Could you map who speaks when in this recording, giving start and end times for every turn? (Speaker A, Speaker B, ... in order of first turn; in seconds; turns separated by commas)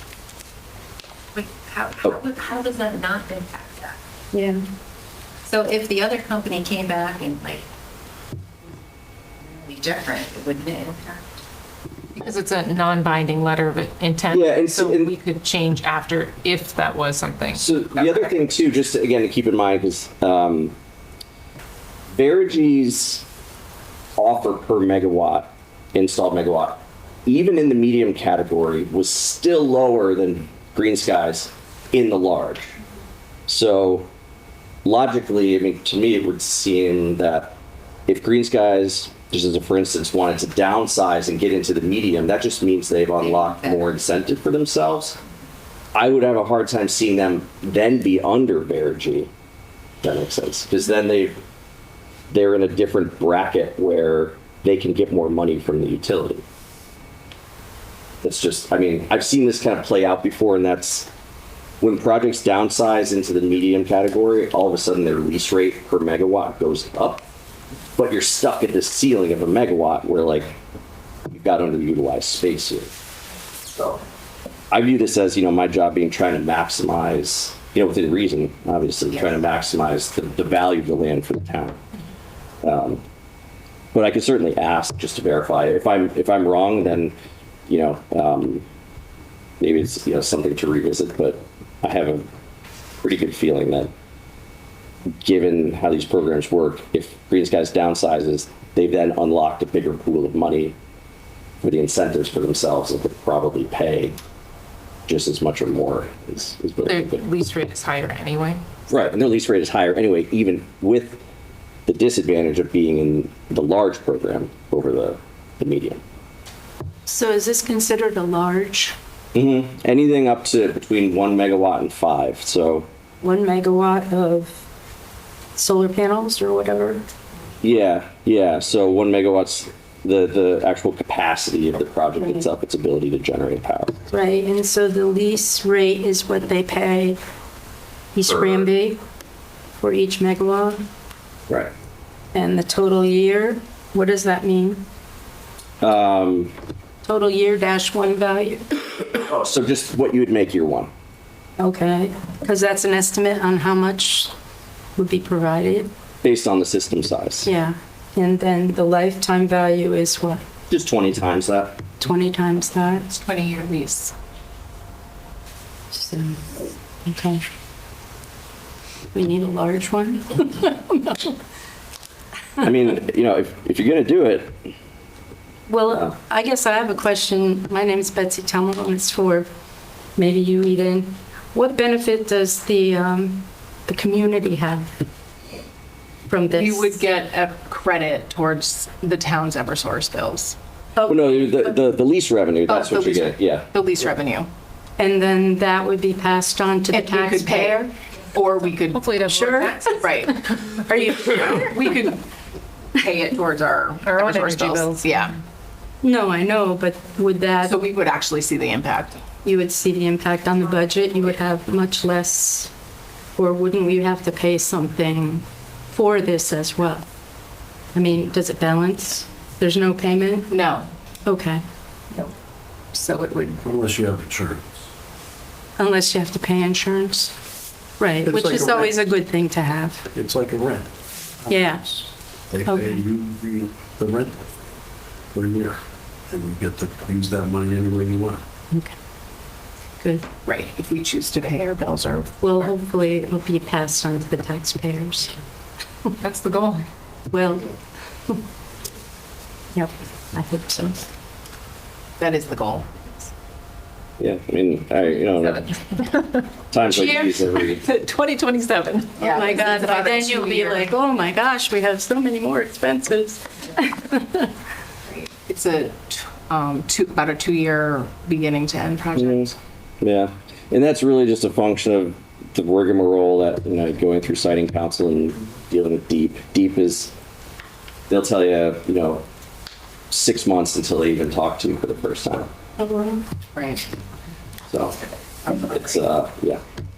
Speaker A: 1.4-4.0, Speaker B: 4.3-4.6, Speaker A: 5.5-7.6, Speaker A: 9.4-11.2, Speaker C: 12.2-12.6, Speaker D: 12.4-17.6, Speaker E: 14.3-15.1, Speaker C: 14.5-15.2, Speaker E: 17.5-20.8, Speaker E: 22.1-23.2, Speaker E: 24.2-32.8, Speaker E: 33.5-34.1, Speaker E: 34.9-37.5, Speaker E: 38.1-45.2, Speaker E: 46.0-49.3, Speaker E: 50.0-51.4, Speaker E: 52.3-56.4, Speaker E: 58.2-61.1, Speaker E: 61.8-67.2, Speaker E: 68.0-70.5, Speaker E: 71.3-72.9, Speaker E: 73.7-74.0, Speaker E: 74.7-81.8, Speaker E: 82.6-83.0, Speaker E: 83.9-87.1, Speaker E: 87.7-88.7, Speaker E: 89.6-92.3, Speaker E: 93.0-93.9, Speaker E: 95.2-100.8, Speaker E: 101.6-104.2, Speaker E: 105.1-107.2, Speaker D: 106.8-108.6, Speaker E: 108.9-111.2, Speaker E: 111.9-116.0, Speaker B: 117.1-119.0, Speaker E: 119.3-122.9, Speaker B: 123.2-124.6, Speaker B: 125.5-127.0, Speaker E: 127.6-133.9, Speaker B: 134.1-137.2, Speaker B: 138.2-139.0, Speaker B: 139.8-140.8, Speaker B: 142.3-144.8, Speaker E: 145.8-146.5, Speaker B: 147.0-148.7, Speaker E: 149.1-150.9, Speaker B: 151.6-154.3, Speaker B: 155.0-155.9, Speaker E: 156.2-157.5, Speaker B: 157.4-160.4, Speaker E: 160.7-161.8, Speaker B: 162.0-163.1, Speaker C: 163.1-164.1, Speaker B: 165.9-166.4, Speaker B: 167.1-167.4, Speaker B: 169.1-171.3, Speaker E: 172.6-174.6, Speaker B: 175.7-179.5, Speaker B: 180.2-184.9, Speaker B: 186.3-187.0, Speaker C: 186.5-190.6, Speaker B: 191.0-191.8, Speaker E: 191.1-193.7, Speaker C: 192.7-194.5, Speaker B: 195.0-197.9, Speaker C: 196.9-202.2, Speaker D: 198.9-199.7, Speaker B: 199.3-200.2, Speaker B: 200.7-201.8, Speaker C: 202.9-205.4, Speaker B: 204.2-205.0, Speaker B: 206.0-207.8, Speaker C: 207.6-209.2, Speaker B: 209.4-212.7, Speaker B: 213.4-217.1, Speaker B: 217.9-220.6, Speaker C: 220.5-220.9, Speaker B: 221.2-221.6, Speaker B: 222.9-223.6, Speaker F: 223.6-224.7, Speaker B: 225.8-227.3, Speaker B: 228.0-230.1, Speaker F: 228.2-228.9, Speaker F: 230.1-230.9, Speaker B: 231.5-232.1, Speaker F: 232.5-234.4, Speaker B: 232.7-233.0, Speaker F: 235.3-238.4, Speaker B: 240.0-240.3, Speaker C: 240.4-242.7, Speaker B: 242.4-245.4, Speaker D: 246.2-246.8, Speaker B: 247.3-247.7, Speaker B: 249.8-251.1, Speaker C: 252.2-253.1, Speaker E: 254.2-255.7, Speaker C: 255.4-256.4, Speaker E: 256.7-257.9, Speaker C: 256.9-257.4, Speaker D: 257.8-259.2, Speaker C: 259.1-260.9, Speaker B: 259.2-264.5, Speaker C: 265.1-269.5, Speaker E: 269.1-277.1, Speaker E: 278.1-279.2, Speaker E: 280.1-282.5, Speaker B: 282.8-283.2, Speaker C: 283.5-283.9, Speaker E: 284.7-285.0, Speaker E: 285.6-286.6